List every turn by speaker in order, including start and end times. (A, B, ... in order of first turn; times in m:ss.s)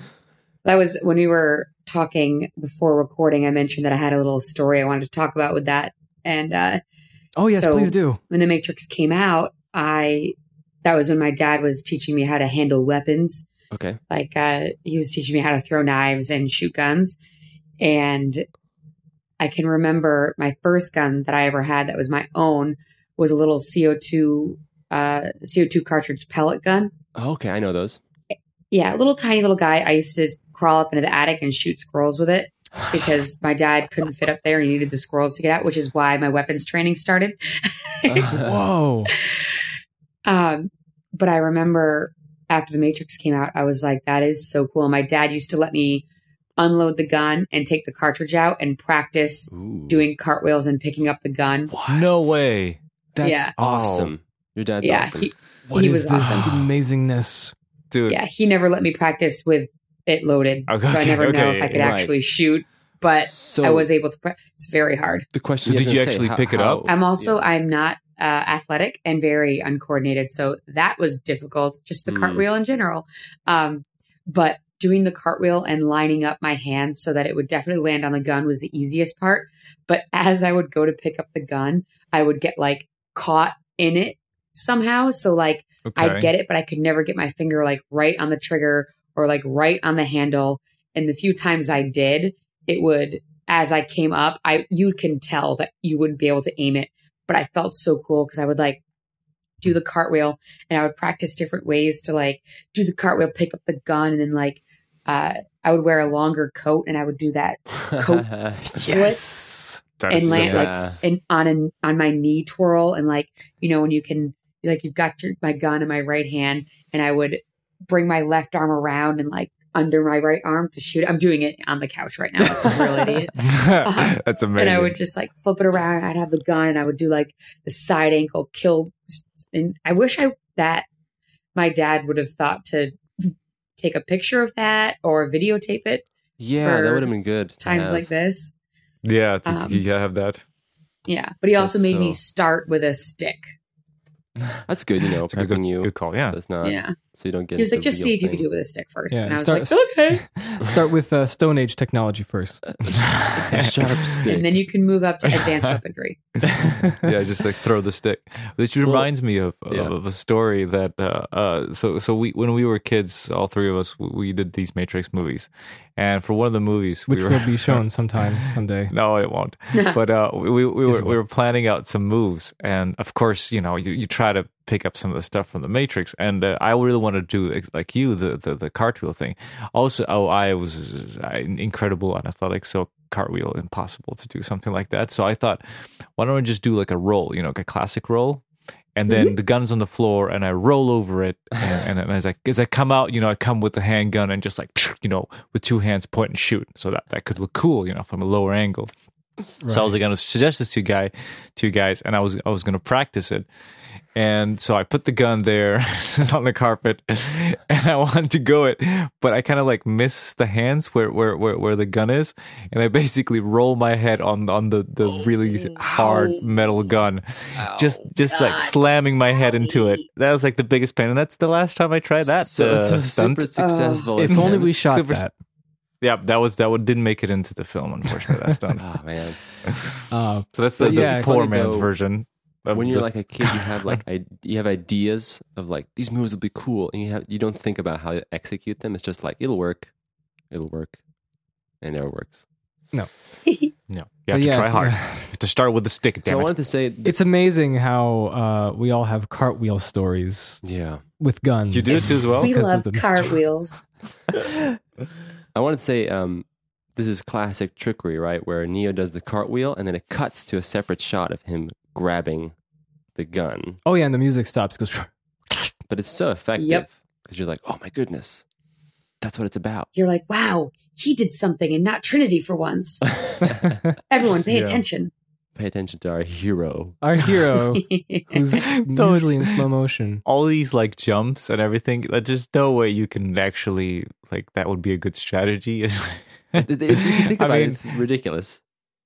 0:00.6-0:06.8 A
0:07.4-0:08.2 B
0:07.5-0:13.5 A
0:13.7-0:14.0 C
0:14.1-0:17.2 A
0:17.8-0:18.4 A
0:19.4-0:26.9 A
0:27.2-0:28.0 C
0:28.7-0:38.3 A
0:38.0-0:38.6 C
0:38.3-0:39.1 B
0:39.2-0:39.5 A
0:40.2-0:46.0 A
0:46.6-0:51.7 A
0:49.5-0:50.1 C
0:51.7-0:52.1 B
0:51.9-0:52.8 D
0:53.2-0:53.7 B
0:53.2-0:53.5 A
0:53.6-0:55.3 C
0:53.6-0:54.1 D
0:54.8-0:56.7 A
0:55.7-0:57.5 B
0:57.9-0:58.2 D
0:58.1-1:05.3 A
1:00.7-1:02.0 D
1:01.7-1:02.2 C
1:03.2-1:03.9 C
1:05.3-1:07.4 C
1:05.6-1:06.8 D
1:06.8-1:38.8 A
1:12.0-1:12.4 C
1:25.8-1:26.3 D
1:39.6-1:49.2 A
1:47.9-1:48.8 C
1:48.7-1:49.8 B
1:50.0-1:51.0 D
1:50.1-2:10.9 A
1:50.2-1:51.0 C
2:03.4-2:05.0 D
2:11.5-2:16.0 A
2:16.4-2:18.1 C
2:16.6-2:18.5 A
2:19.0-2:20.4 D
2:19.4-2:19.8 A
2:21.0-2:23.5 A
2:21.6-2:22.2 C
2:24.7-2:28.4 C
2:25.2-2:26.4 D
2:26.6-2:27.0 A
2:27.6-2:30.2 A
2:29.1-2:32.7 B
2:32.8-2:34.6 C
2:32.9-2:34.2 D
2:33.5-2:36.2 A
2:35.3-2:35.8 D
2:36.5-2:37.0 B
2:36.5-2:48.2 D
2:38.8-2:39.1 C
2:39.7-2:39.9 C
2:47.1-2:48.9 B
2:48.9-3:05.6 D
2:49.7-2:50.0 A
2:50.8-2:51.2 B
3:06.2-3:08.4 D
3:08.9-3:18.9 D
3:19.6-3:20.0 B
3:19.7-3:23.5 D
3:24.1-3:43.4 D
3:35.0-3:36.5 A
3:37.7-3:38.8 A
3:39.3-3:40.0 A
3:42.2-3:44.7 C
3:43.6-3:44.1 A
3:44.2-3:45.3 B
3:44.3-3:45.2 D
3:46.0-3:48.8 D
3:48.8-3:49.4 C
3:49.6-3:49.9 D
3:50.1-3:51.3 B
3:50.5-3:54.0 D
3:50.8-3:51.9 C
3:52.7-3:59.9 C
4:00.5-4:01.0 C
4:01.8-4:02.4 C
4:03.4-4:03.7 A
4:03.9-4:06.5 D
4:04.3-4:05.3 B
4:06.2-4:07.2 C
4:07.0-4:10.6 B
4:10.6-4:11.0 C
4:11.2-4:13.3 B
4:11.7-4:12.5 D
4:11.9-4:13.8 A
4:15.5-4:22.5 C
4:23.2-4:23.8 C
4:23.8-4:25.7 B
4:25.9-4:28.4 C
4:26.6-4:26.8 A
4:29.2-4:29.9 C
4:29.9-4:33.1 A
4:33.1-4:33.8 C
4:33.6-4:34.0 B
4:34.1-4:35.1 A
4:34.5-4:34.8 D
4:35.6-4:37.0 C
4:37.0-4:40.2 B
4:37.7-4:38.5 A
4:38.5-4:39.6 D
4:40.2-4:47.8 D
4:46.5-4:48.6 C